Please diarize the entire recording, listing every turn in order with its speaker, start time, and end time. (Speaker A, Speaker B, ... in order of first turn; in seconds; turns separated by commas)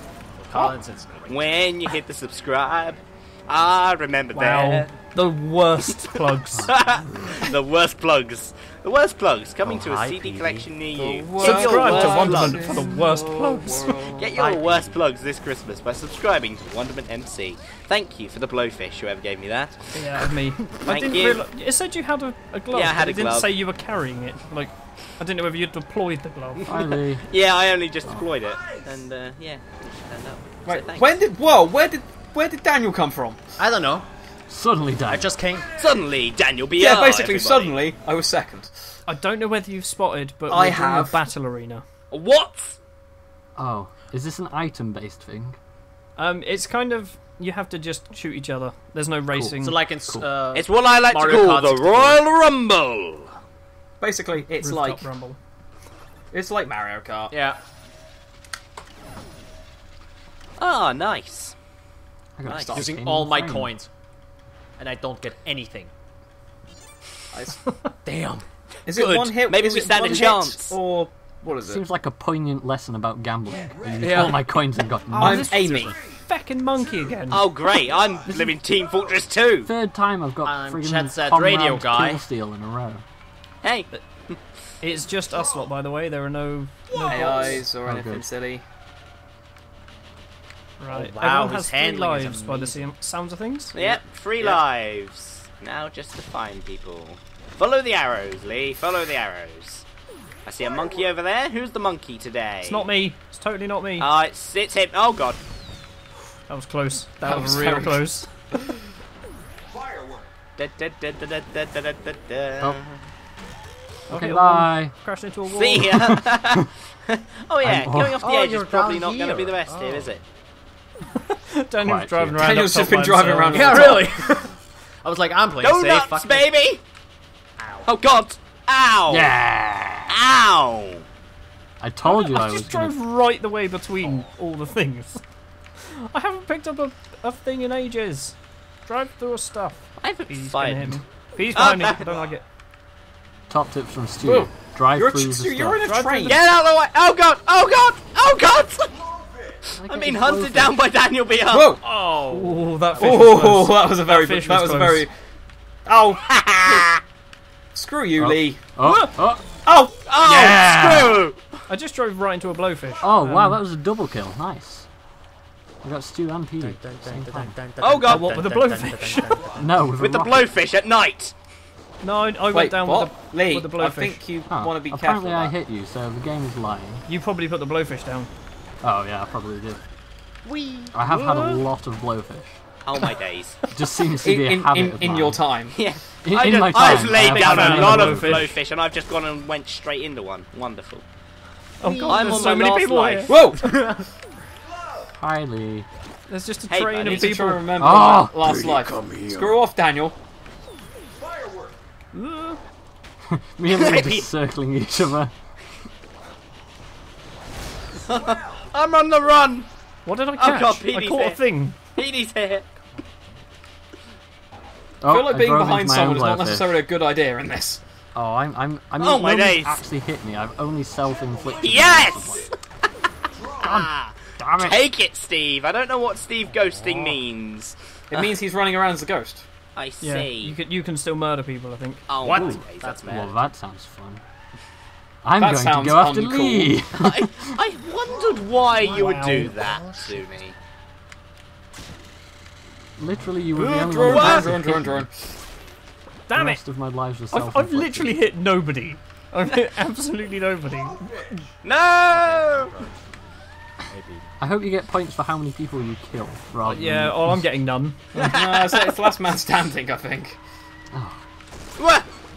Speaker A: 0.4-1.5, Speaker B: 1.3-4.9, Speaker C: 4.3-6.8, Speaker D: 6.5-7.5, Speaker B: 6.7-12.9, Speaker A: 9.6-10.7, Speaker E: 11.0-14.3, Speaker C: 11.4-14.0, Speaker B: 14.2-20.3, Speaker A: 14.3-15.0, Speaker C: 19.9-26.7, Speaker B: 20.9-21.4, Speaker B: 22.7-23.5, Speaker B: 26.6-31.2, Speaker D: 26.6-27.3, Speaker E: 30.7-33.5, Speaker A: 33.6-34.1, Speaker D: 34.5-35.3, Speaker A: 35.1-35.7, Speaker B: 35.8-37.8, Speaker E: 36.8-38.7, Speaker C: 39.1-41.8, Speaker E: 40.5-41.2, Speaker B: 42.1-42.8, Speaker D: 43.6-45.6, Speaker C: 46.2-49.8, Speaker A: 49.6-52.2, Speaker B: 50.5-53.4, Speaker E: 54.0-55.1, Speaker C: 54.5-55.4, Speaker E: 56.3-57.3, Speaker A: 57.3-57.6, Speaker B: 60.6-61.5, Speaker D: 62.4-63.7, Speaker B: 62.5-62.8, Speaker E: 62.5-63.0, Speaker A: 62.7-63.9, Speaker A: 64.8-65.9, Speaker E: 67.3-67.7, Speaker A: 68.0-68.4, Speaker B: 68.9-70.8, Speaker E: 68.9-71.8, Speaker D: 71.6-75.6, Speaker A: 74.0-74.5, Speaker C: 75.1-77.5, Speaker E: 75.2-76.0, Speaker B: 77.3-79.7, Speaker D: 79.7-83.0, Speaker A: 80.5-82.2, Speaker B: 83.6-84.4, Speaker C: 84.8-87.7, Speaker E: 87.1-88.6, Speaker D: 87.8-88.3, Speaker C: 90.8-93.8, Speaker A: 90.9-92.9, Speaker B: 93.8-99.8, Speaker E: 93.8-94.6, Speaker B: 100.5-102.9, Speaker C: 102.6-104.1, Speaker B: 104.0-105.4, Speaker C: 106.5-108.3, Speaker E: 107.2-108.1, Speaker B: 110.6-113.0, Speaker D: 114.1-114.9, Speaker C: 114.1-116.1, Speaker B: 115.5-120.2, Speaker D: 115.8-116.7, Speaker D: 117.6-118.2, Speaker A: 118.2-120.2, Speaker C: 121.2-124.1, Speaker D: 121.8-122.7, Speaker E: 122.4-124.3, Speaker A: 123.5-126.5, Speaker B: 125.6-126.8, Speaker A: 127.6-127.9, Speaker B: 127.9-129.3, Speaker D: 129.1-130.2, Speaker B: 130.1-131.1, Speaker D: 131.8-132.9, Speaker C: 132.0-135.2, Speaker C: 135.8-142.4, Speaker B: 140.0-141.0, Speaker B: 141.5-142.2, Speaker D: 143.5-145.8, Speaker E: 144.2-146.4, Speaker C: 145.8-146.4, Speaker B: 146.2-149.0, Speaker D: 149.8-150.8, Speaker B: 149.8-151.8, Speaker E: 151.5-151.8, Speaker A: 151.8-152.6, Speaker C: 152.1-155.1, Speaker E: 152.9-155.1, Speaker E: 155.9-156.9, Speaker B: 156.3-157.0, Speaker E: 157.7-158.6, Speaker D: 158.2-159.5, Speaker C: 158.8-159.2, Speaker E: 159.7-160.6, Speaker B: 160.1-161.4, Speaker D: 160.2-161.2, Speaker C: 161.7-163.6, Speaker D: 163.0-164.9, Speaker D: 165.8-167.6, Speaker A: 166.6-169.8, Speaker B: 167.8-168.4, Speaker C: 168.0-169.5, Speaker D: 169.6-170.5, Speaker B: 170.0-171.3, Speaker C: 172.0-174.2, Speaker E: 172.5-175.6, Speaker D: 174.5-177.1, Speaker C: 177.1-178.3, Speaker D: 178.8-179.8, Speaker B: 180.4-180.9, Speaker D: 180.9-182.6, Speaker C: 181.1-181.6, Speaker B: 182.8-183.6, Speaker D: 183.7-185.4, Speaker E: 184.2-185.8, Speaker B: 185.7-191.0, Speaker D: 186.2-188.5, Speaker C: 187.1-188.5, Speaker C: 191.8-193.4, Speaker A: 191.8-192.4, Speaker B: 192.1-193.4, Speaker E: 193.3-193.8, Speaker A: 193.6-194.1, Speaker D: 195.2-195.9, Speaker C: 196.3-197.8, Speaker B: 196.7-197.4, Speaker E: 197.0-200.2, Speaker D: 197.8-198.9, Speaker A: 198.4-199.5, Speaker C: 202.1-202.6, Speaker D: 203.3-205.3, Speaker B: 203.7-204.3, Speaker B: 208.1-209.7, Speaker C: 210.1-211.8, Speaker B: 210.4-211.4, Speaker B: 211.9-212.7, Speaker D: 215.0-216.8, Speaker E: 215.1-217.8, Speaker D: 218.2-222.5, Speaker B: 219.0-219.8, Speaker B: 221.6-222.6, Speaker B: 223.6-228.3, Speaker D: 223.6-223.9, Speaker D: 224.4-224.8, Speaker A: 226.7-227.1, Speaker E: 228.1-229.4, Speaker B: 229.8-230.6, Speaker C: 230.0-232.1, Speaker B: 232.1-233.3, Speaker A: 232.2-233.3, Speaker D: 232.3-234.2, Speaker D: 235.2-237.6, Speaker E: 235.4-236.8, Speaker B: 236.9-240.6, Speaker A: 238.8-240.2, Speaker C: 238.9-239.5, Speaker D: 243.0-245.1, Speaker E: 243.5-245.1, Speaker B: 244.0-244.5, Speaker C: 246.3-246.6, Speaker D: 246.3-248.2, Speaker C: 247.3-251.5, Speaker B: 251.6-252.7, Speaker A: 252.1-253.2, Speaker A: 253.8-254.3, Speaker D: 254.4-257.4, Speaker C: 256.6-258.0, Speaker E: 258.1-260.4, Speaker B: 258.2-258.7, Speaker D: 260.9-261.2, Speaker B: 261.8-262.1